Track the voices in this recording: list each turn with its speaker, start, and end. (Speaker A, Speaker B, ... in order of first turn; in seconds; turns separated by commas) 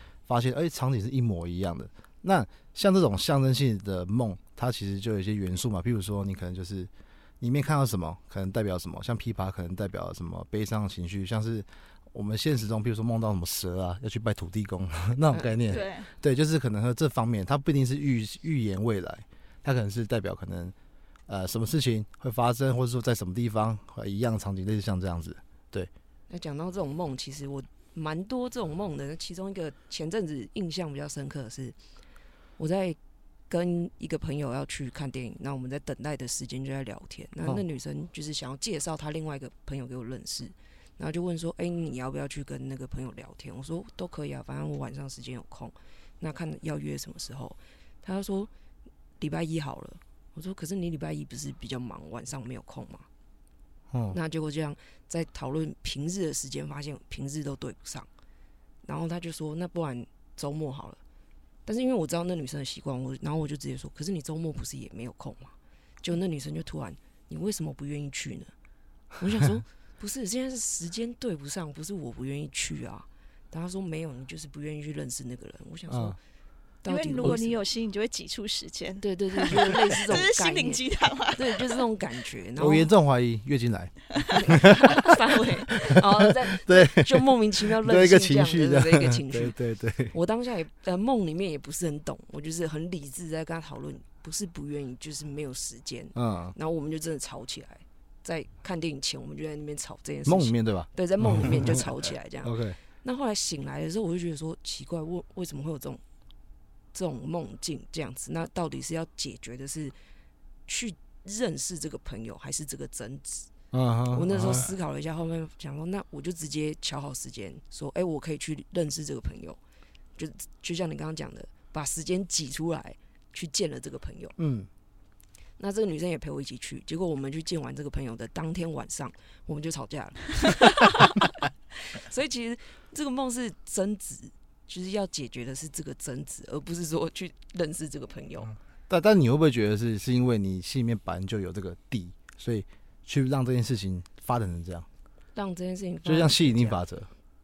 Speaker A: 0.3-6.9, Speaker A: 7.4-20.7, Speaker B: 15.7-16.1, Speaker A: 21.3-25.9, Speaker C: 26.3-31.8, Speaker C: 32.6-33.0, Speaker C: 33.5-48.5, Speaker C: 49.2-53.0, Speaker A: 53.9-54.2, Speaker C: 54.1-58.1, Speaker C: 58.8-61.0, Speaker C: 61.6-68.5, Speaker C: 69.2-76.2, Speaker A: 75.9-76.2, Speaker C: 76.8-77.6, Speaker B: 76.8-81.8, Speaker C: 79.0-80.8, Speaker C: 81.3-82.9, Speaker A: 82.6-85.0, Speaker C: 84.3-89.6, Speaker A: 85.7-90.1, Speaker C: 90.1-106.0, Speaker A: 96.1-96.5, Speaker A: 100.2-101.8, Speaker A: 102.4-102.8, Speaker C: 106.9-109.9, Speaker C: 110.7-113.5, Speaker A: 113.7-114.7, Speaker C: 114.1-119.6, Speaker C: 120.2-124.3, Speaker A: 124.4-124.7, Speaker C: 125.6-138.5, Speaker A: 138.9-144.8, Speaker C: 145.3-146.8, Speaker A: 146.1-147.1